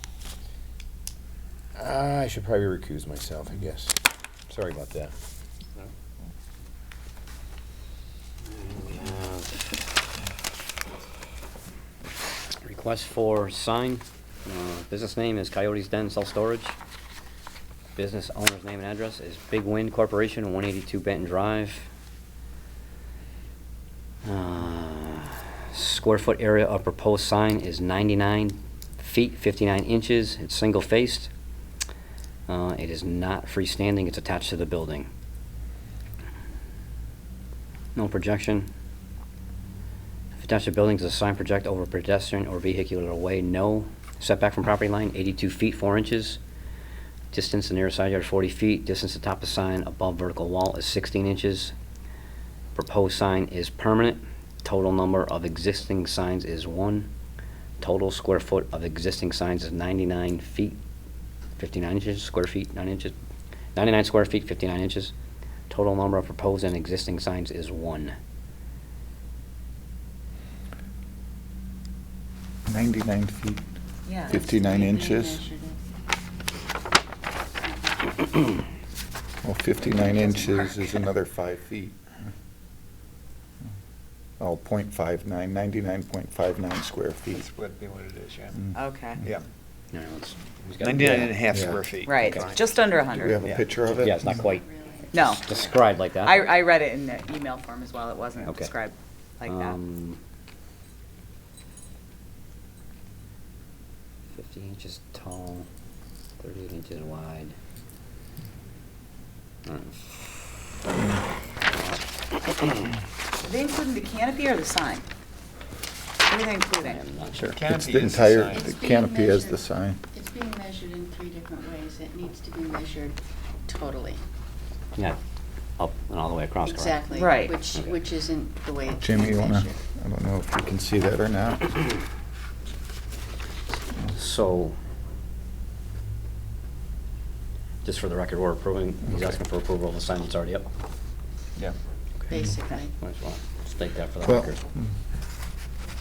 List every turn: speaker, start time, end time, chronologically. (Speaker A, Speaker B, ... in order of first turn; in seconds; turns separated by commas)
Speaker A: 1.8-4.0, Speaker A: 4.5-5.1, Speaker B: 8.6-9.8, Speaker B: 12.6-16.8, Speaker B: 17.9-21.9, Speaker B: 24.2-31.3, Speaker B: 32.5-35.1, Speaker B: 37.9-38.7, Speaker B: 40.4-46.4, Speaker B: 47.3-51.7, Speaker B: 52.7-57.1, Speaker B: 57.8-60.8, Speaker B: 61.6-63.1, Speaker B: 63.7-65.1, Speaker B: 65.7-68.1, Speaker C: 72.7-73.6, Speaker D: 74.0-74.4, Speaker C: 74.2-75.4, Speaker E: 74.3-75.8, Speaker E: 77.6-78.2, Speaker C: 79.4-82.0, Speaker D: 80.0-80.6, Speaker C: 84.4-87.5, Speaker F: 87.3-89.5, Speaker D: 88.7-89.2, Speaker B: 89.9-92.5, Speaker F: 90.8-92.4, Speaker D: 92.0-93.4, Speaker C: 93.0-94.3, Speaker B: 94.0-96.6, Speaker E: 94.0-95.9, Speaker D: 95.1-95.5, Speaker D: 96.2-99.8, Speaker B: 98.4-98.7, Speaker B: 99.4-100.2, Speaker B: 104.3-105.7, Speaker B: 106.4-107.5, Speaker B: 109.7-110.0, Speaker B: 111.7-112.9, Speaker D: 113.4-115.0, Speaker D: 116.2-117.0, Speaker B: 116.8-117.5, Speaker F: 117.3-118.7, Speaker C: 117.4-120.0, Speaker E: 118.5-124.2, Speaker B: 125.8-127.2, Speaker E: 126.6-129.7, Speaker D: 127.1-127.6, Speaker C: 129.0-131.8, Speaker B: 134.1-134.8, Speaker B: 137.8-140.7, Speaker E: 142.3-142.9, Speaker B: 143.0-144.6, Speaker C: 144.2-144.9